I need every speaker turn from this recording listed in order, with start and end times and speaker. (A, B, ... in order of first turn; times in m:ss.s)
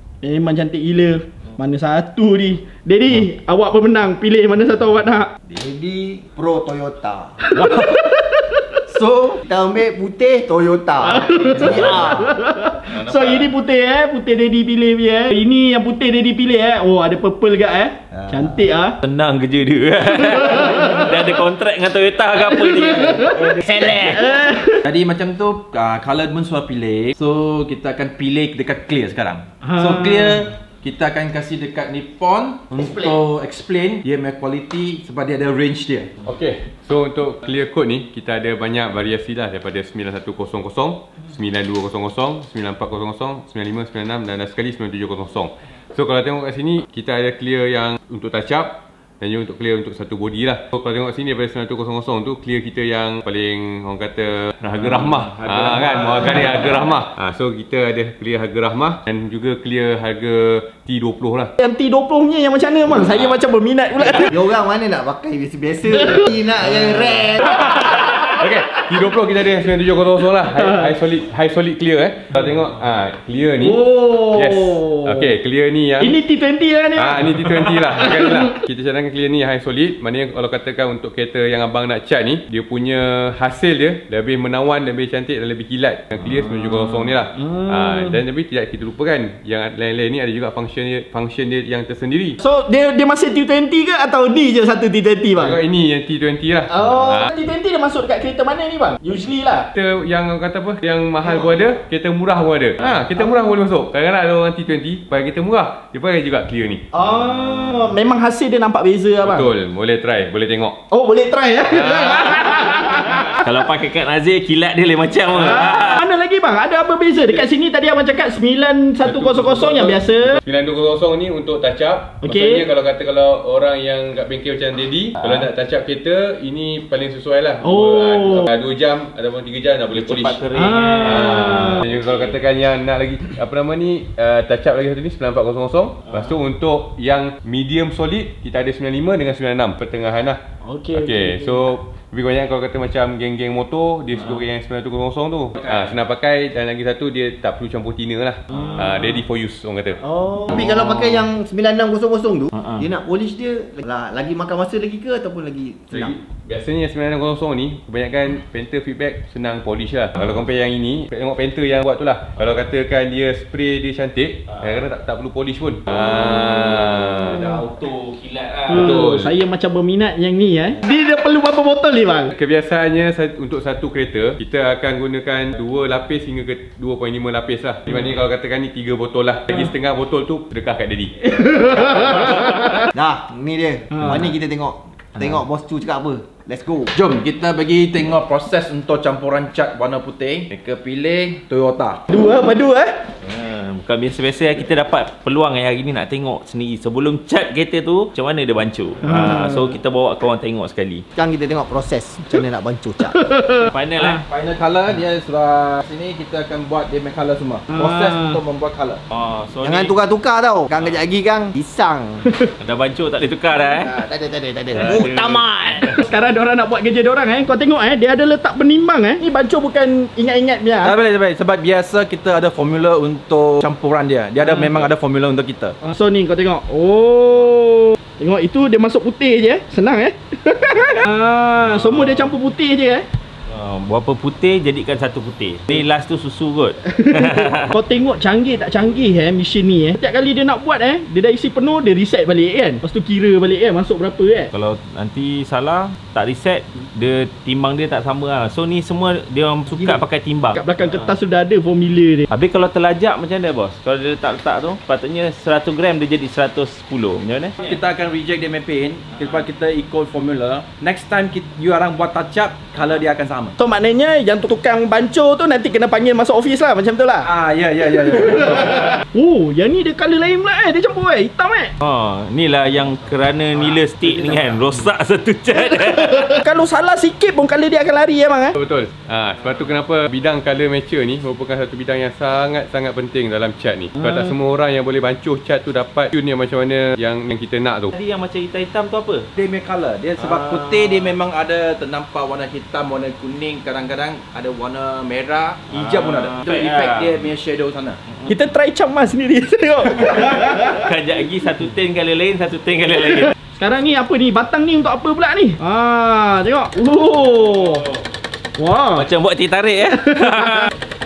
0:00.2-0:05.3 A
0:05.5-0:07.4 B
0:07.5-0:08.6 A
0:08.9-0:12.3 B
0:11.1-0:19.0 A
0:11.5-0:12.2 C
0:12.9-0:13.5 C
0:18.1-0:18.5 B
0:19.0-0:24.0 C
0:20.4-0:21.1 A
0:22.6-0:23.4 A
0:23.3-0:24.4 B
0:24.1-0:24.8 A
0:24.8-0:36.1 D
0:29.6-0:30.4 A
0:36.2-1:01.5 E
0:54.8-0:56.6 C
1:01.6-1:04.3 A
1:04.0-1:07.8 B
1:07.8-1:16.2 E
1:13.6-1:15.3 A
1:16.0-1:18.5 A
1:17.0-1:32.4 E
1:26.6-1:27.0 C
1:27.4-1:28.2 A
1:32.4-1:35.6 A
1:35.4-1:37.3 E
1:36.7-1:39.7 A
1:39.7-1:46.9 E
1:46.9-1:49.5 A
1:49.2-1:50.8 E
1:50.9-1:53.4 A
1:51.7-1:53.3 E
1:53.4-1:56.0 C
1:55.4-2:00.4 A
1:59.0-2:10.4 E
2:02.2-2:02.6 A
2:05.2-2:05.5 C
2:07.6-2:08.5 A
2:09.9-2:12.3 C
2:10.6-2:11.8 A
2:11.0-2:20.4 E
2:20.6-2:21.7 A
2:20.9-2:30.0 E
2:30.0-2:30.6 A
2:30.5-2:36.2 B
2:35.9-2:47.6 E
2:47.2-2:49.0 C
2:48.7-2:49.3 E
2:48.7-2:52.3 A
2:52.3-3:01.6 E
3:01.3-3:02.9 A
3:02.9-3:06.9 B
3:06.9-3:12.0 D
3:12.1-3:13.0 A
3:13.2-3:21.0 C
3:19.1-3:19.3 A
3:21.2-3:23.2 B
3:23.1-3:23.7 A
3:23.6-3:24.2 C
3:24.0-3:29.0 D
3:27.7-3:28.4 A
3:29.1-3:29.9 C
3:29.6-3:32.2 B
3:32.6-3:33.9 C
3:33.7-3:36.0 B
3:34.7-3:35.9 C
3:36.0-3:40.9 A
3:40.8-3:45.8 D
3:45.8-3:53.0 A
3:51.8-3:52.3 C
3:53.5-3:57.7 C
3:57.0-4:04.5 A
4:04.5-4:10.6 C
4:10.5-4:12.3 A
4:12.3-4:17.5 C
4:17.6-4:23.5 D
4:23.6-4:27.3 A
4:27.2-4:29.0 D
4:29.1-4:31.7 A
4:31.8-4:36.3 C
4:36.1-4:38.5 A
4:38.6-4:47.9 E
4:47.9-4:49.3 C
4:49.4-4:58.0 D
4:50.2-4:50.9 C
4:55.7-4:57.2 C
4:58.3-5:00.9 A
5:00.2-5:03.3 C
5:03.5-5:07.8 A
5:08.6-5:09.0 A
5:08.9-5:10.7 C
5:10.0-5:10.7 A